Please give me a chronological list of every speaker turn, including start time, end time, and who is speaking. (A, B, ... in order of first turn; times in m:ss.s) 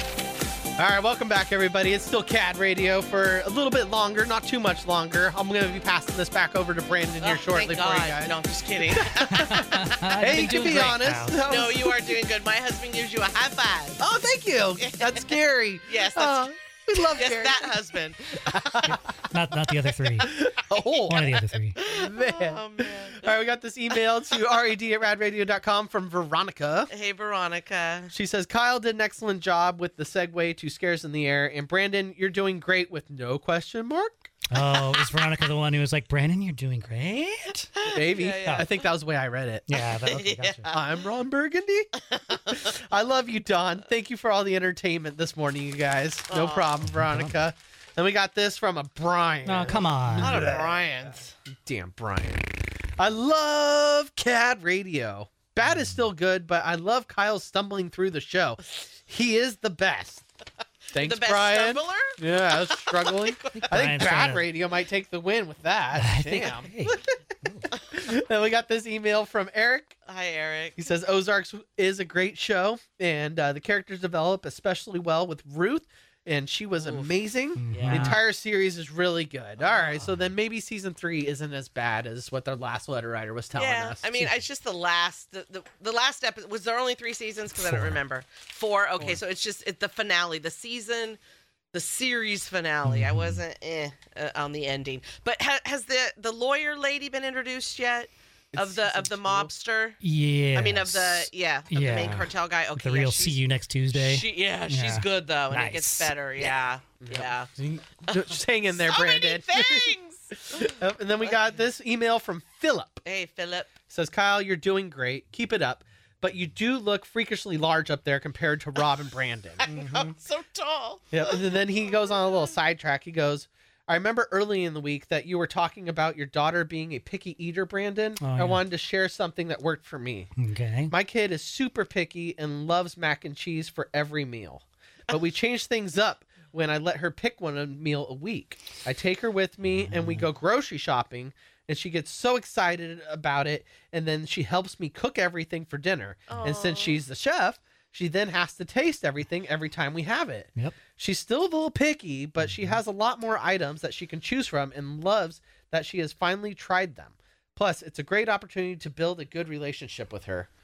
0:00.8-0:08.4 A
0:07.2-0:09.6 B
0:08.9-0:12.2 A
0:09.3-0:11.4 C
0:11.5-0:14.0 B
0:14.0-0:19.0 A
0:14.8-0:15.3 B
0:15.9-0:16.5 B
0:17.1-0:18.9 B
0:18.9-0:20.4 C
0:20.2-0:26.9 A
0:20.8-0:23.4 B
0:21.1-0:21.8 C
0:26.9-0:28.1 B
0:28.1-0:34.3 A
0:34.5-0:37.8 C
0:37.8-0:38.9 B
0:37.9-0:39.7 A
0:39.7-0:40.7 C
0:39.9-0:40.8 B
0:40.7-0:41.9 A
0:42.2-0:42.6 B
0:42.5-1:00.2 A
0:46.3-0:46.7 B
0:46.9-0:47.4 C
0:49.5-0:50.5 C
0:50.2-0:51.3 B
1:00.9-1:02.2 B
1:00.9-1:07.2 A
1:02.7-1:03.8 B
1:03.6-1:04.5 C
1:06.0-1:07.7 C
1:07.7-1:10.0 A
1:10.1-1:10.8 B
1:10.8-1:24.1 A
1:16.8-1:17.1 B
1:17.6-1:18.2 C
1:17.7-1:18.2 B
1:19.6-1:19.9 B
1:23.6-1:31.2 B
1:27.6-1:28.0 C
1:31.7-1:40.0 B
1:32.8-1:33.4 C
1:38.5-1:39.5 A
1:40.0-1:46.1 C
1:40.6-1:43.4 B
1:43.9-1:47.5 B
1:47.0-1:53.0 A
1:48.8-1:50.7 B
1:53.0-1:53.7 B
1:53.9-1:59.7 A
1:59.6-2:01.5 B
1:59.7-2:00.1 C
2:01.1-2:10.3 A
2:08.2-2:08.6 C
2:10.4-2:10.9 C
2:10.9-2:40.5 A
2:19.9-2:20.2 C
2:26.3-2:27.0 B